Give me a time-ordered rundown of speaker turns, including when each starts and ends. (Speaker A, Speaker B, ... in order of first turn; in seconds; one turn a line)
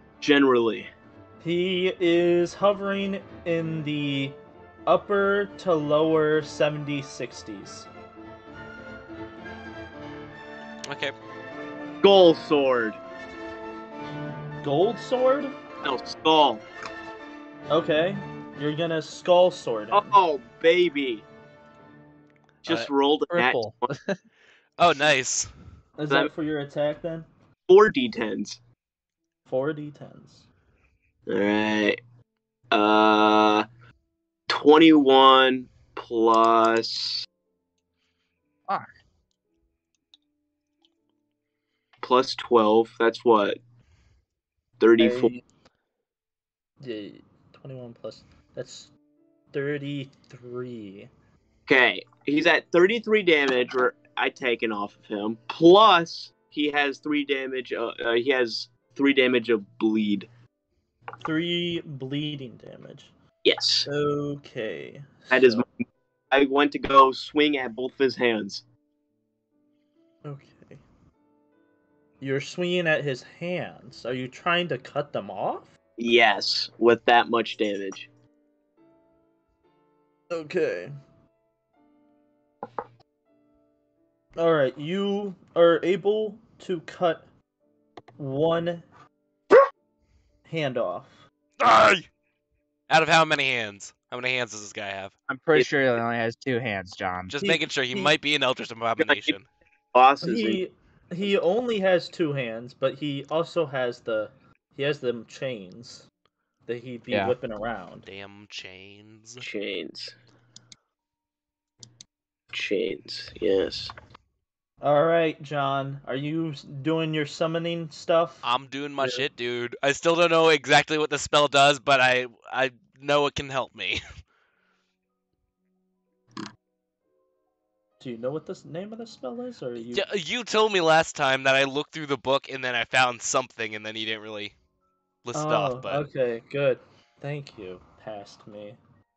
Speaker A: 0.2-0.9
Speaker B: 1.4-7.9
Speaker C: 10.9-11.1
Speaker A: 12.0-13.0
Speaker B: 14.6-15.6
Speaker A: 15.8-16.6
Speaker B: 17.7-20.2
Speaker A: 19.9-21.2
Speaker A: 22.6-23.9
Speaker D: 23.3-24.2
Speaker C: 24.8-25.5
Speaker B: 26.0-27.3
Speaker A: 27.7-28.6
Speaker B: 29.5-30.4
Speaker A: 31.3-32.0
Speaker A: 32.7-33.7
Speaker A: 34.5-37.3
Speaker A: 42.0-43.6
Speaker A: 44.8-45.3
Speaker B: 45.0-45.4
Speaker B: 46.8-48.9
Speaker B: 49.5-51.1
Speaker A: 51.7-60.3
Speaker B: 61.2-63.1
Speaker A: 63.5-63.9
Speaker B: 63.9-65.6
Speaker A: 65.3-65.7
Speaker A: 66.3-68.6
Speaker B: 70.2-70.8
Speaker B: 72.2-75.7
Speaker A: 76.0-78.1
Speaker B: 80.3-80.9
Speaker B: 84.4-87.3
Speaker B: 88.2-88.9
Speaker B: 90.5-91.2
Speaker C: 91.6-92.1
Speaker C: 92.9-95.1
Speaker D: 95.3-97.3
Speaker C: 97.3-99.5
Speaker B: 97.4-98.1
Speaker A: 99.9-100.6
Speaker B: 100.2-106.1
Speaker B: 106.7-108.1
Speaker C: 108.1-109.5
Speaker A: 109.4-110.2
Speaker A: 112.5-113.9
Speaker B: 114.8-118.5
Speaker C: 118.4-124.0
Speaker B: 119.0-119.3
Speaker B: 128.0-130.1
Speaker C: 129.9-134.5
Speaker C: 135.2-136.1
Speaker B: 135.3-138.8